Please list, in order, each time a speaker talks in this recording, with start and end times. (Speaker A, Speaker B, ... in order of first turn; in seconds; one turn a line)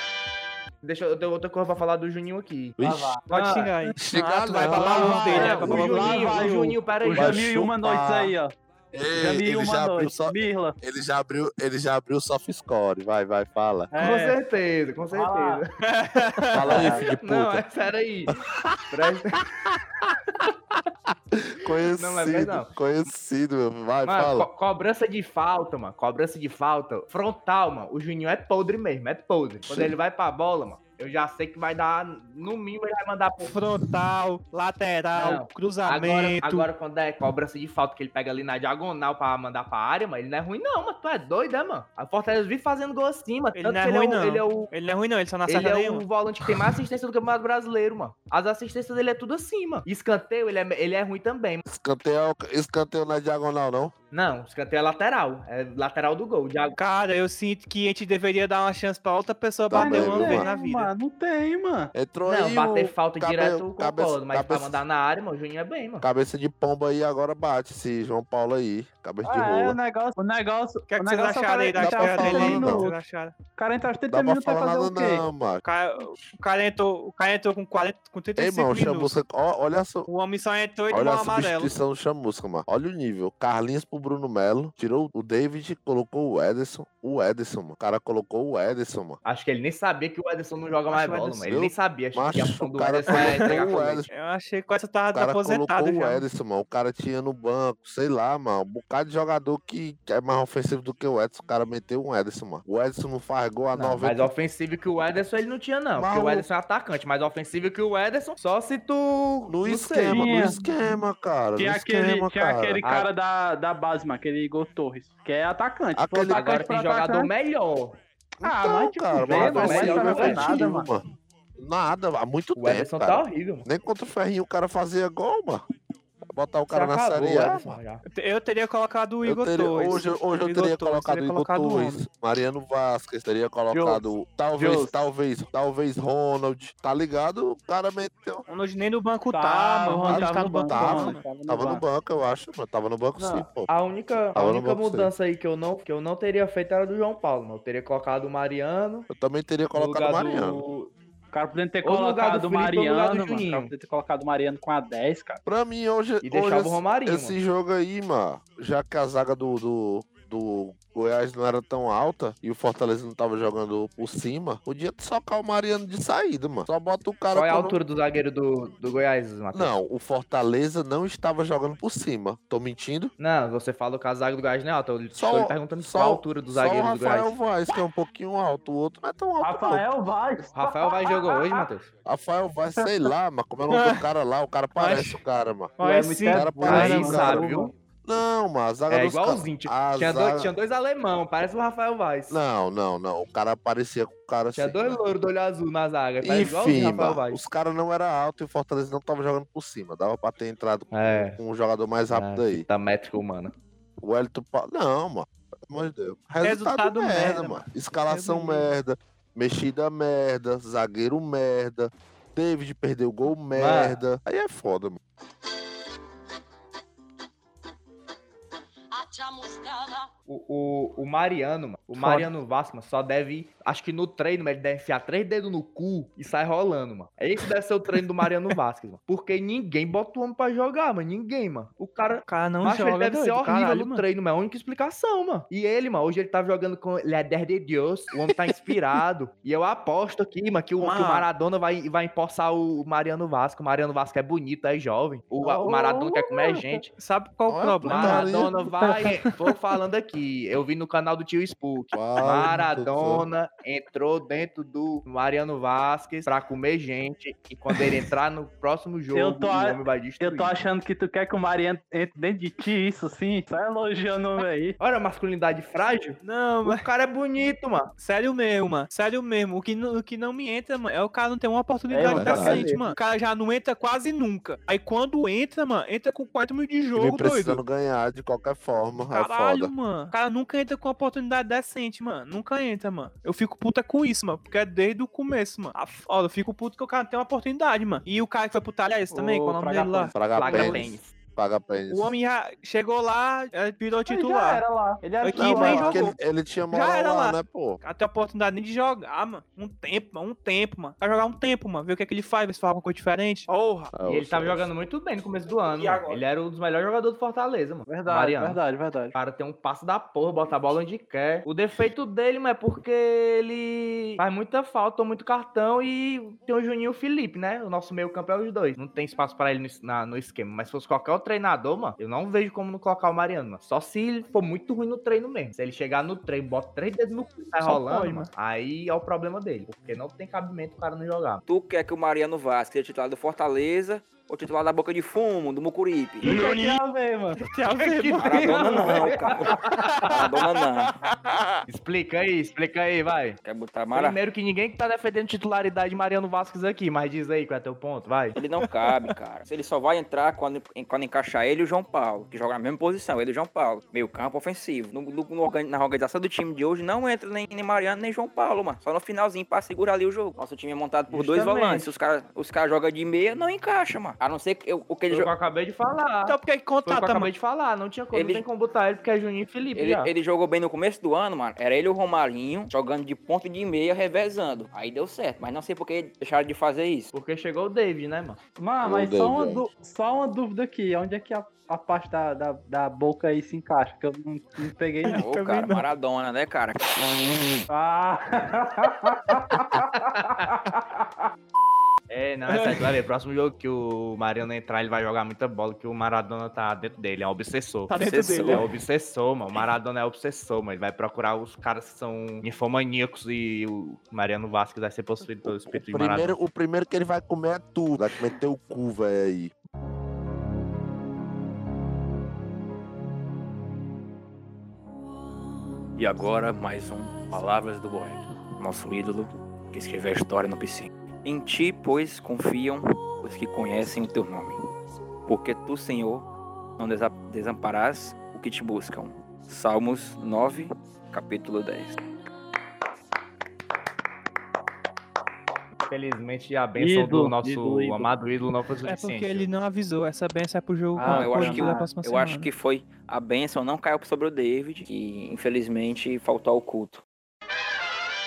Speaker A: 0.8-2.8
Speaker B: 2.8-3.2
Speaker C: 2.8-3.2
Speaker A: 3.3-3.7
Speaker D: 3.3-6.5
Speaker B: 4.0-6.2
Speaker C: 4.5-8.6
Speaker A: 4.8-7.5
Speaker B: 7.1-8.3
Speaker B: 8.9-13.9
Speaker C: 9.1-10.8
Speaker C: 13.9-14.4
Speaker A: 14.0-15.7
Speaker C: 15.1-15.6
Speaker D: 16.0-16.6
Speaker B: 16.5-17.7
Speaker A: 16.6-18.4
Speaker C: 16.7-17.1
Speaker B: 18.5-19.1
Speaker A: 18.9-19.5
Speaker B: 19.6-20.5
Speaker B: 21.3-24.5
Speaker A: 21.9-22.7
Speaker A: 24.1-33.5
Speaker B: 29.6-29.9
Speaker D: 33.4-36.7
Speaker A: 35.2-44.7
Speaker D: 43.6-46.0
Speaker A: 45.5-51.6
Speaker B: 51.7-53.9
Speaker A: 54.1-56.8
Speaker D: 56.8-60.9
Speaker B: 59.7-60.5
Speaker C: 59.7-61.9
Speaker B: 61.9-64.8
Speaker A: 62.3-66.1
Speaker B: 66.0-69.8
Speaker C: 69.2-73.0
Speaker D: 70.9-73.3
Speaker B: 71.8-72.9
Speaker C: 73.6-75.2
Speaker B: 74.1-75.6
Speaker D: 75.6-79.2
Speaker B: 78.4-80.1
Speaker D: 80.1-81.7
Speaker B: 80.9-89.2
Speaker A: 89.2-94.0
Speaker D: 90.9-91.5
Speaker B: 91.5-94.1
Speaker D: 93.2-93.5
Speaker D: 94.1-96.2
Speaker B: 95.1-104.3
Speaker A: 103.8-110.6
Speaker B: 106.0-106.5
Speaker B: 109.5-112.8
Speaker C: 110.1-110.9
Speaker C: 111.6-117.3
Speaker A: 112.8-113.1
Speaker B: 116.0-116.6
Speaker A: 116.3-118.0
Speaker B: 118.4-121.1
Speaker C: 118.4-120.9
Speaker A: 119.3-120.7
Speaker B: 121.6-125.6
Speaker A: 122.6-123.7
Speaker B: 126.3-127.8
Speaker A: 126.7-128.0
Speaker D: 128.1-132.0
Speaker B: 129.2-138.4
Speaker C: 133.7-134.0
Speaker C: 134.6-134.9
Speaker D: 138.5-141.2
Speaker C: 139.3-141.8
Speaker B: 140.0-143.7
Speaker A: 143.2-149.1
Speaker B: 144.3-145.1
Speaker B: 149.1-150.6
Speaker A: 149.8-150.9
Speaker C: 151.3-155.4
Speaker A: 151.8-153.7
Speaker B: 155.5-167.8
Speaker A: 156.2-157.4
Speaker A: 167.3-169.7
Speaker B: 169.5-173.1
Speaker A: 173.2-177.3
Speaker B: 175.1-179.9
Speaker C: 179.4-181.7
Speaker A: 180.6-181.9
Speaker B: 182.1-187.5
Speaker D: 183.7-184.1
Speaker D: 184.8-185.2
Speaker D: 185.8-187.3
Speaker C: 185.8-187.7
Speaker A: 186.6-187.7
Speaker B: 188.1-190.5
Speaker A: 188.9-192.4
Speaker B: 192.3-195.0
Speaker A: 194.6-197.4
Speaker B: 196.2-202.7
Speaker A: 200.9-201.4
Speaker A: 202.1-203.5
Speaker B: 204.0-215.0
Speaker D: 206.4-208.7
Speaker A: 213.5-214.0
Speaker A: 220.3-246.9
Speaker D: 222.0-222.3
Speaker D: 232.2-234.1
Speaker D: 240.8-241.3
Speaker C: 245.4-246.8
Speaker D: 247.0-249.4
Speaker B: 247.5-248.5
Speaker A: 247.8-260.6
Speaker B: 251.9-253.2
Speaker C: 259.1-264.8
Speaker A: 264.8-267.9
Speaker D: 266.2-266.9
Speaker D: 268.0-277.6
Speaker C: 271.9-272.9
Speaker B: 272.1-272.7
Speaker B: 276.9-279.7
Speaker D: 279.1-290.8
Speaker C: 289.1-290.2
Speaker B: 290.1-292.1
Speaker A: 290.3-291.1
Speaker D: 291.9-294.6
Speaker C: 294.1-296.1
Speaker D: 295.2-296.1
Speaker B: 295.3-297.8
Speaker D: 296.7-303.9
Speaker B: 303.9-304.7
Speaker A: 304.1-308.6
Speaker D: 305.7-306.2
Speaker C: 307.9-309.1
Speaker A: 309.1-331.4
Speaker D: 327.6-328.3
Speaker E: 331.5-336.4
Speaker D: 336.2-336.8
Speaker C: 336.2-340.3
Speaker D: 337.4-340.1
Speaker E: 338.2-340.9
Speaker A: 341.7-343.4
Speaker E: 343.4-344.2
Speaker A: 343.9-348.4
Speaker E: 348.4-365.3
Speaker D: 348.9-349.1
Speaker C: 361.1-361.9
Speaker A: 365.1-370.1
Speaker D: 366.3-367.3
Speaker E: 368.1-368.4
Speaker E: 369.7-377.1
Speaker A: 377.1-378.4
Speaker C: 378.6-385.2
Speaker B: 378.8-379.7
Speaker D: 385.0-385.9
Speaker E: 385.1-386.9
Speaker C: 387.7-391.2
Speaker A: 392.1-406.4
Speaker D: 392.5-392.9
Speaker D: 397.9-398.7
Speaker E: 398.0-398.7
Speaker B: 405.4-409.5
Speaker E: 416.0-424.6
Speaker E: 425.3-426.3
Speaker E: 426.8-432.0
Speaker A: 435.9-439.5
Speaker C: 436.8-438.1
Speaker D: 438.9-442.5
Speaker C: 441.0-441.9
Speaker E: 441.0-447.0